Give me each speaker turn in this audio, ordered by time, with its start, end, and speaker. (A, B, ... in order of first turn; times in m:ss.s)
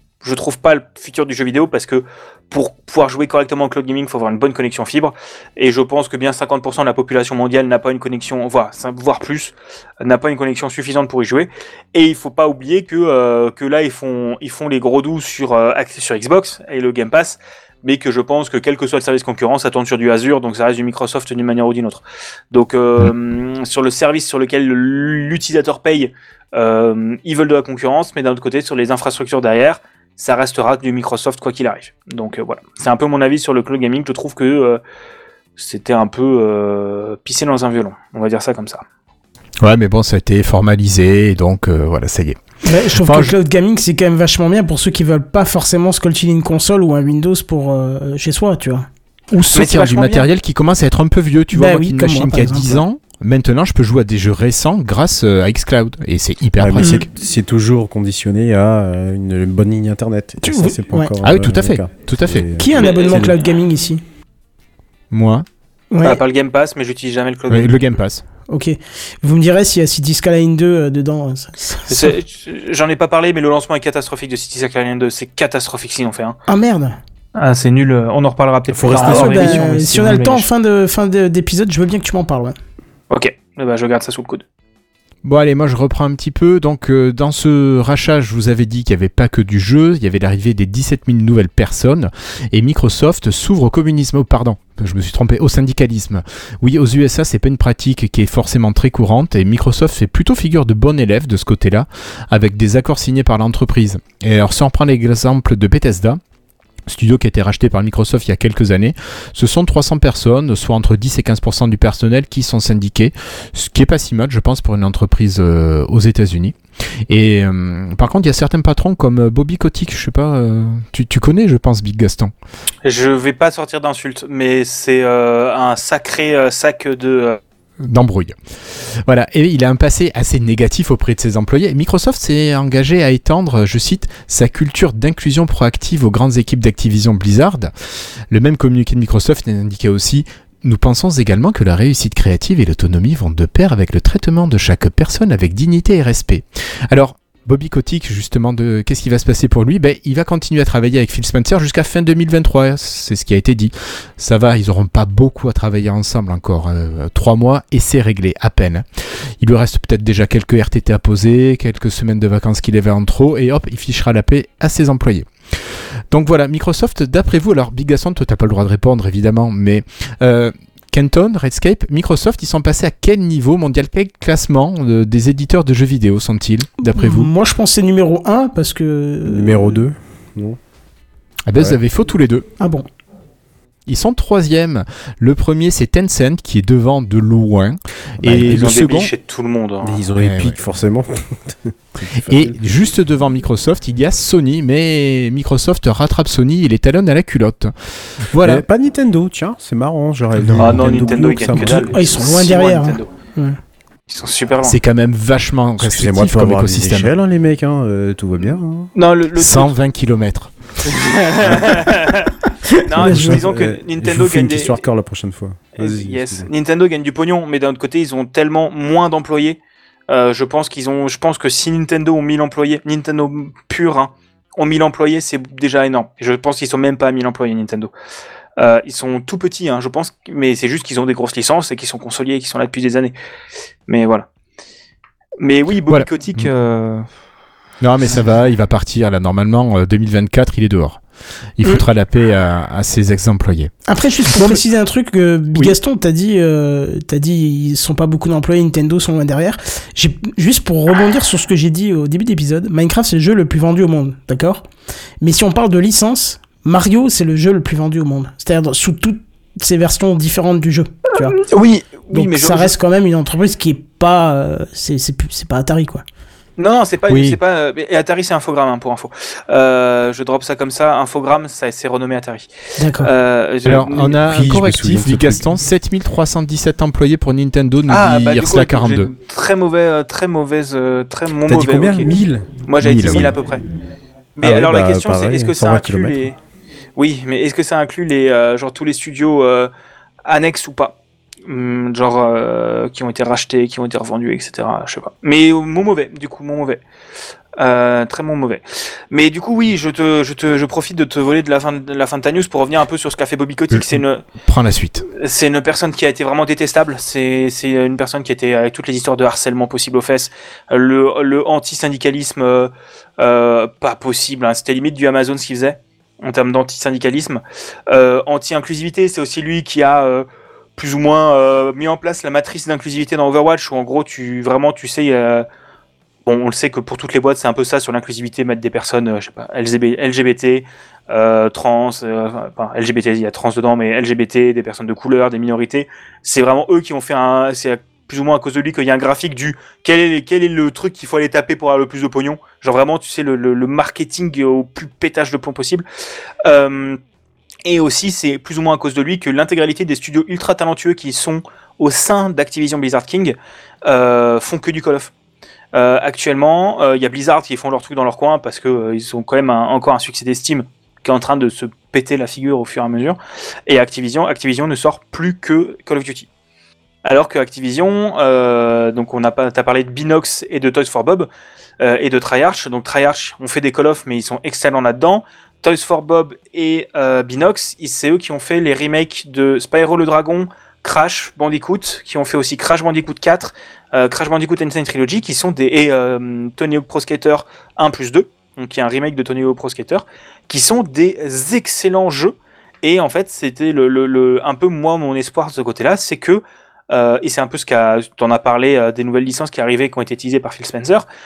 0:00.2-0:34.8 A
0:35.6-0:38.8 A
0:39.6-0:42.4 B
0:42.6-0:48.9 C
0:42.9-0:43.3 B
0:49.3-0:57.0 B
0:49.5-0:50.3 A
0:51.5-0:52.8 C
0:56.6-1:03.3 D
1:00.4-1:01.1 C
1:01.2-1:02.5 B
1:02.6-1:04.0 C
1:02.8-1:03.3 A
1:05.1-1:05.4 B
1:05.9-1:06.2 C
1:06.0-1:07.9 A
1:07.5-1:08.2 B
1:08.5-1:12.1 C
1:11.9-1:16.4 A
1:16.5-1:17.0 C
1:17.3-1:20.5 A
1:18.7-1:19.6 D
1:18.9-1:22.6 C
1:23.1-1:24.4 A
1:25.2-1:46.2 B
1:46.9-2:02.3 B
2:02.8-2:07.4 A
2:07.8-2:17.7 B
2:18.3-2:57.3 B
2:56.9-2:59.8 C
2:59.2-3:00.6 D
3:01.4-3:02.5 B
3:02.6-3:02.9 C
3:03.9-3:09.1 B
3:08.2-3:08.8 D
3:08.4-3:10.0 A
3:09.8-3:12.6 D
3:10.2-3:10.6 B
3:12.3-3:18.6 B
3:18.4-3:21.9 D
3:20.4-3:20.9 B
3:20.6-3:23.1 A
3:21.6-3:23.6 C
3:24.1-3:24.8 A
3:24.6-3:27.1 B
3:25.8-3:28.9 D
3:28.9-3:29.8 A
3:29.4-3:30.9 B
3:30.8-3:34.8 A
3:33.0-3:33.4 C
3:33.0-3:36.5 D
3:35.8-3:47.9 A
3:48.6-3:53.2 A
3:53.9-3:54.3 A
3:55.4-3:57.1 A
3:55.9-3:56.5 B
3:57.8-4:01.0 B
4:01.6-4:03.7 B
4:03.9-4:14.6 C
4:04.3-4:04.6 B
4:15.2-4:21.4 C
4:21.4-4:22.8 A
4:22.1-4:26.0 C
4:26.6-4:34.2 A
4:32.8-4:33.1 C
4:33.6-4:39.1 B
4:34.2-4:35.5 D
4:37.9-4:43.6 A
4:41.5-4:43.3 D
4:42.8-4:43.3 B
4:44.4-4:46.4 A
4:44.4-4:46.2 D
4:47.0-4:49.7 A
4:50.2-4:56.8 A
4:57.6-5:04.2 A
5:03.7-5:05.0 B
5:05.0-5:25.5 A
5:26.2-5:45.8 A
5:46.4-5:47.0 A
5:47.6-5:55.1 A
5:55.7-6:06.3 A
6:07.0-6:41.0 A